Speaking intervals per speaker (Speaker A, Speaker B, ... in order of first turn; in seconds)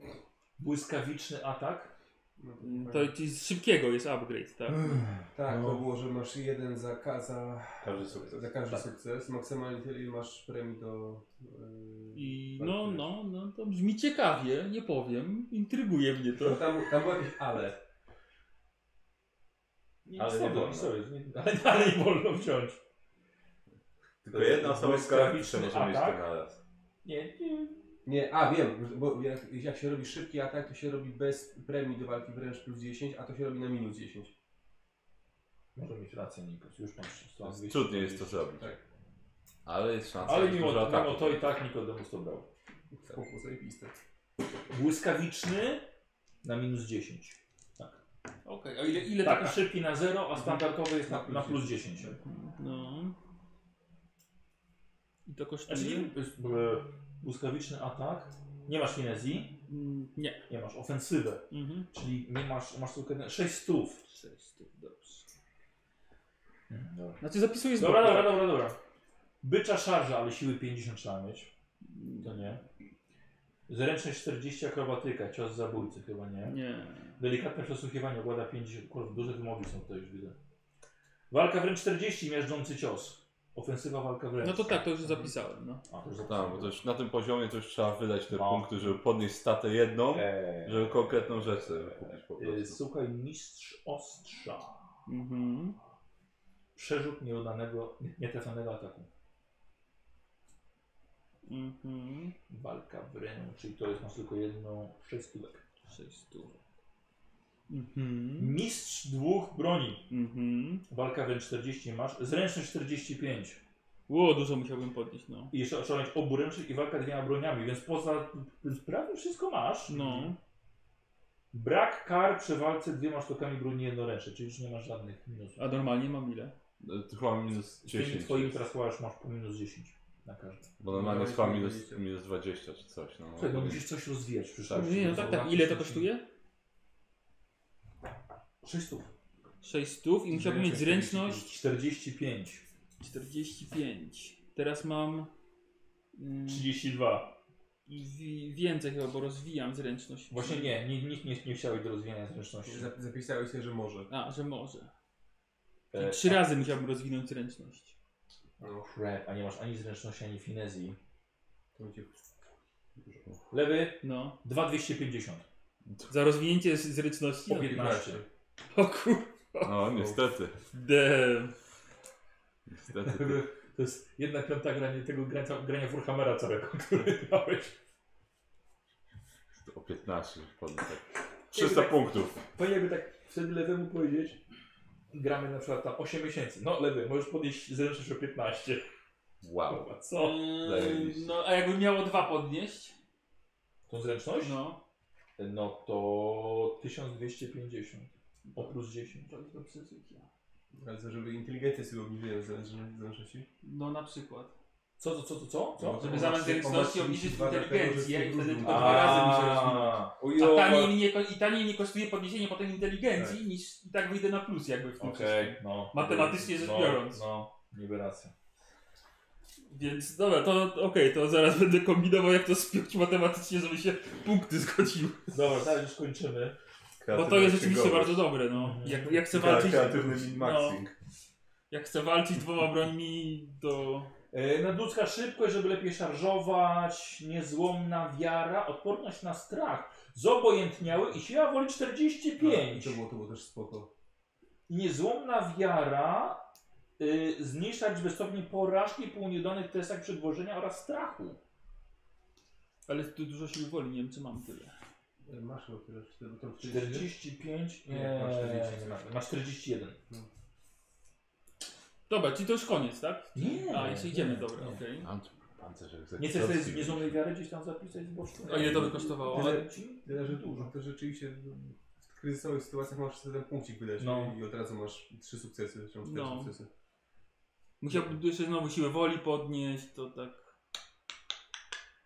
Speaker A: 0.6-1.9, 5.2-5.8, 20.1-22.8, 24.3-26.3, 27.0-27.9, 35.7-38.4, 40.2-42.5, 44.7-45.9, 46.4-48.0, 49.2-52.2, 55.7-59.5, 60.5-64.0, 66.7-67.2, 67.8-68.8, 69.4-71.5, 72.2-72.6, 73.7-76.6, 77.2-80.3, 81.3-85.3, 85.9-86.8, 88.3-88.8, 90.1-95.0, 96.8-99.1, 102.5-105.6, 108.4-110.1, 110.9-113.6, 115.5-120.2, 121.5-125.6, 127.8-130.7, 133.3-136.1, 138.6-139.1, 141.5-142.6, 146.5-147.3, 150.3-152.9, 155.9-156.4, 158.8-161.0, 163.5-165.4, 167.5-168.2, 172.9-177.8, 181.5-184.4, 185.1-188.8, 189.7-190.5, 193.9-194.6, 195.4-199.3, 205.0-206.3, 208.6-210.8, 215.0-218.3, 225.3-226.6, 228.5-229.2, 234.3-243.0, 244.7-246.4, 247.0-251.4, 256.6-260.0, 263.3-264.8, 266.2-270.7, 274.0-274.4
Speaker B: 2.4-3.1, 5.3-13.1, 16.4-17.8, 28.0-34.3, 43.0-44.0, 50.4-51.8, 120.0-120.3, 130.9-132.0, 140.3-141.5, 152.7-154.1, 158.6-158.8, 161.7-162.2, 167.6-168.3, 200.7-203.5, 205.8-209.7, 210.2-210.9, 242.4-243.9, 255.2-257.1, 257.9-259.0, 268.6-276.7
Speaker C: 2.6-5.0, 12.1-16.7, 48.4-49.7, 52.2-53.2, 55.2-56.1, 59.7-60.4, 61.5-61.9, 64.0-65.3, 67.2-68.5, 71.8-72.5, 76.5-77.2, 84.4-85.8, 95.0-95.8, 101.5-102.3, 105.8-106.6, 107.7-108.6, 110.1-110.8, 114.1-115.5, 119.9-120.4, 125.6-126.5, 134.7-136.2, 139.6-141.5, 143.0-145.3, 146.1-146.7, 147.9-150.7, 154.1-154.9, 155.9-157.9, 164.0-164.4, 166.1-167.9, 168.7-169.9, 170.7-171.5, 190.2-192.9, 194.4-194.8, 198.5-200.3, 203.6-204.5, 206.0-217.2, 219.7-225.3, 227.1-230.8, 231.7-234.1, 252.8-254.7, 262.1-265.1, 268.4-269.6, 276.0-276.5, 277.8-280.5
Speaker D: 7.8-8.9, 20.1-20.9, 24.2-26.6, 37.4-38.7, 39.6-41.5, 86.2-92.8, 126.8-128.6, 130.8-133.9, 134.8-135.1, 169.6-170.6, 172.7-173.4, 179.6-182.4, 189.4-189.8, 190.6-191.3, 227.0-228.3, 229.3-230.9, 265.0-267.2